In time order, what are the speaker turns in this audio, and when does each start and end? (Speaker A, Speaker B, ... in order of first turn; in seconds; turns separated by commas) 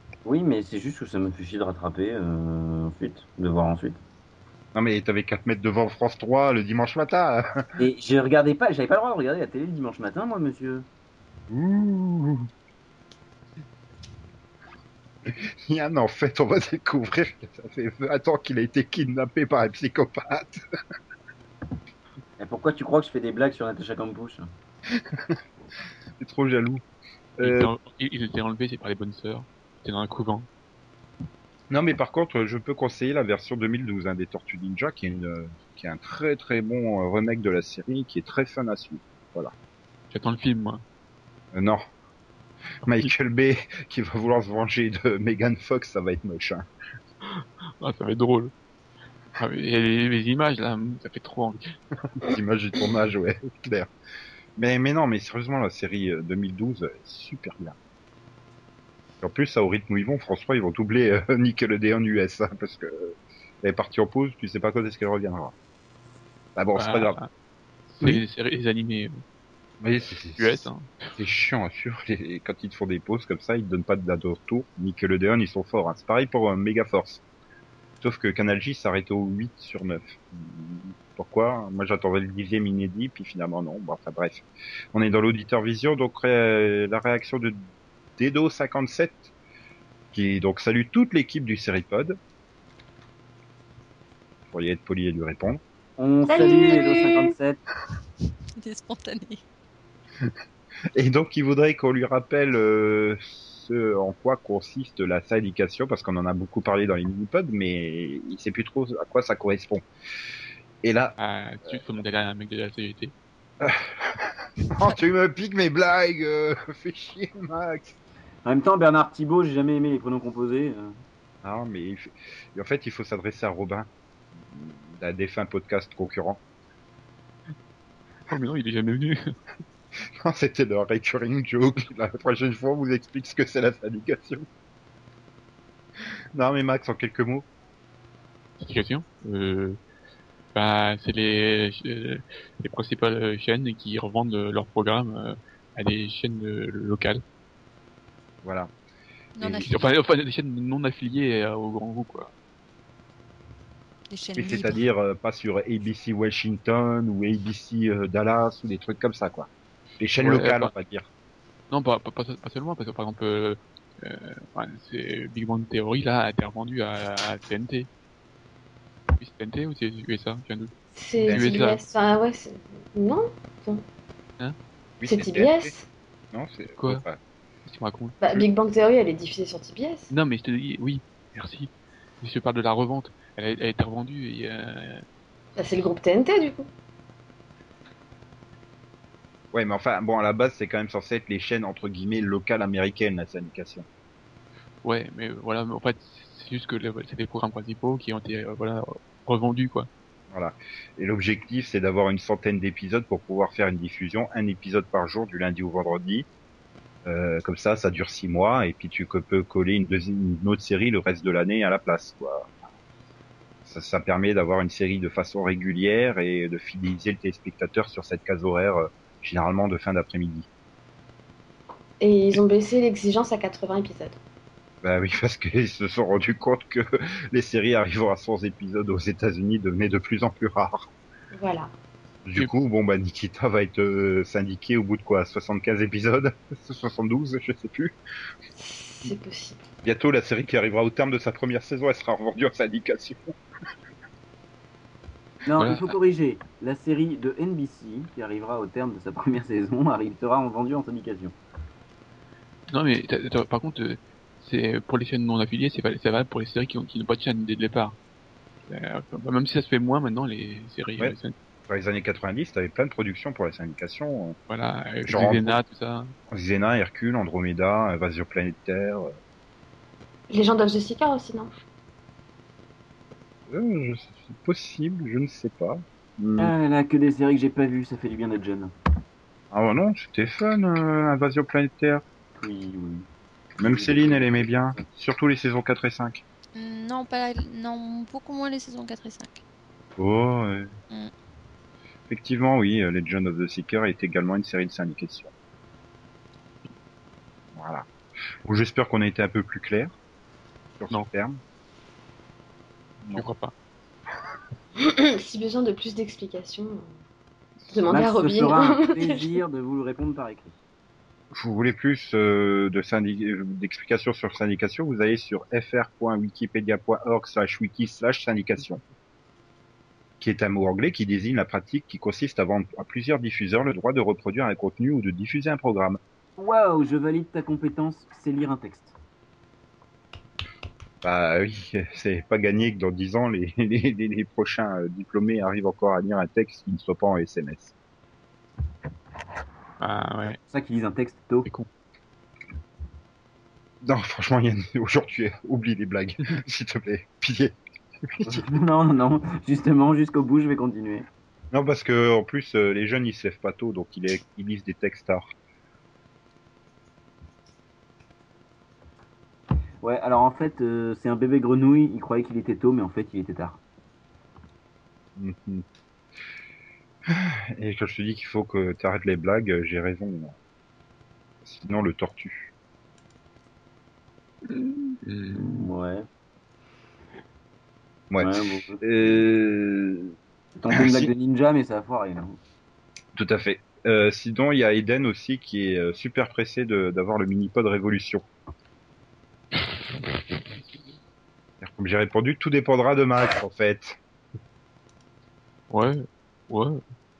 Speaker A: 0.2-4.0, Speaker B: 4.7-7.5, Speaker A: 7.8-10.9, Speaker B: 11.5-12.5, Speaker B: 15.3-20.6, Speaker A: 22.4-24.5, Speaker B: 24.9-25.4, Speaker B: 26.2-26.8, Speaker B: 27.4-27.7, Speaker C: 27.4-30.5, Speaker B: 31.7-39.5, Speaker C: 40.1-40.8, Speaker B: 41.5-41.8, Speaker B: 42.8-46.6, Speaker C: 42.9-43.1, Speaker C: 47.3-48.5, Speaker C: 49.4-51.6, Speaker B: 52.2-53.9, Speaker B: 54.6-57.8, Speaker B: 59.2-65.5, Speaker B: 66.6-67.2, Speaker C: 66.8-67.3, Speaker C: 67.9-69.2, Speaker B: 69.8-77.2, Speaker C: 70.4-71.2, Speaker B: 78.0-87.6, Speaker B: 88.2-89.3, Speaker B: 90.1-92.2, Speaker B: 94.5-95.6, Speaker A: 96.0-97.6, Speaker D: 96.3-97.0, Speaker E: 96.3-97.1, Speaker D: 98.6-99.4, Speaker B: 101.0-109.8, Speaker B: 110.8-111.2, Speaker C: 111.2-113.1, Speaker B: 113.6-118.0, Speaker A: 118.5-121.0, Speaker B: 121.4-123.9, Speaker B: 124.4-126.4, Speaker C: 128.3-129.3, Speaker B: 130.2-134.5, Speaker B: 136.3-137.5, Speaker C: 138.6-139.8, Speaker C: 140.5-147.2, Speaker B: 148.4-148.7, Speaker D: 149.4-149.8, Speaker C: 149.4-152.3, Speaker D: 154.1-154.8, Speaker B: 154.3-159.5, Speaker B: 160.0-161.1, Speaker C: 160.2-160.7, Speaker C: 161.7-167.9, Speaker C: 169.2-170.7, Speaker E: 170.9-173.8, Speaker C: 171.3-171.8, Speaker B: 175.0-175.7, Speaker E: 175.1-175.9, Speaker B: 176.3-177.2, Speaker C: 176.8-177.1, Speaker C: 177.7-178.4, Speaker E: 178.2-180.1, Speaker C: 180.1-185.0, Speaker E: 185.6-186.7, Speaker B: 189.5-193.8, Speaker C: 194.8-199.9, Speaker B: 200.3-206.3, Speaker B: 207.1-212.5, Speaker B: 213.7-220.5, Speaker E: 222.0-224.2, Speaker B: 224.8-230.9, Speaker E: 231.3-231.7, Speaker B: 232.2-238.0, Speaker E: 238.6-239.6, Speaker B: 239.8-243.3, Speaker A: 245.4-251.3, Speaker C: 245.6-246.0, Speaker C: 252.7-258.0, Speaker C: 258.7-261.3, Speaker B: 261.7-264.4, Speaker C: 264.5-266.1, Speaker B: 265.1-265.6, Speaker B: 266.3-269.1, Speaker E: 270.3-271.5, Speaker B: 273.5-276.5, Speaker A: 276.4-278.7, Speaker B: 279.5-282.0, Speaker A: 282.4-283.1, Speaker A: 283.6-284.8, Speaker B: 283.6-286.2, Speaker D: 286.6-289.4, Speaker B: 290.0-290.7, Speaker B: 292.1-295.3, Speaker B: 297.5-297.9, Speaker B: 298.5-299.9, Speaker B: 300.8-301.4, Speaker C: 303.1-303.5, Speaker E: 304.8-306.9, Speaker E: 307.7-309.4, Speaker A: 307.9-310.6, Speaker B: 311.3-318.8, Speaker B: 320.2-326.0, Speaker A: 326.4-328.9, Speaker B: 331.0-337.8, Speaker C: 339.8-340.4, Speaker A: 340.4-341.5, Speaker B: 343.8-348.4, Speaker A: 348.2-351.1, Speaker B: 351.5-355.3, Speaker A: 359.8-363.6, Speaker B: 365.2-365.6, Speaker B: 367.1-370.4, Speaker B: 371.4-372.5, Speaker C: 374.5-375.7, Speaker A: 375.3-376.1, Speaker B: 378.1-380.1, Speaker A: 378.2-379.2, Speaker A: 380.6-382.4, Speaker B: 380.7-381.1, Speaker B: 383.1-388.3, Speaker B: 391.6-394.0, Speaker C: 395.7-396.8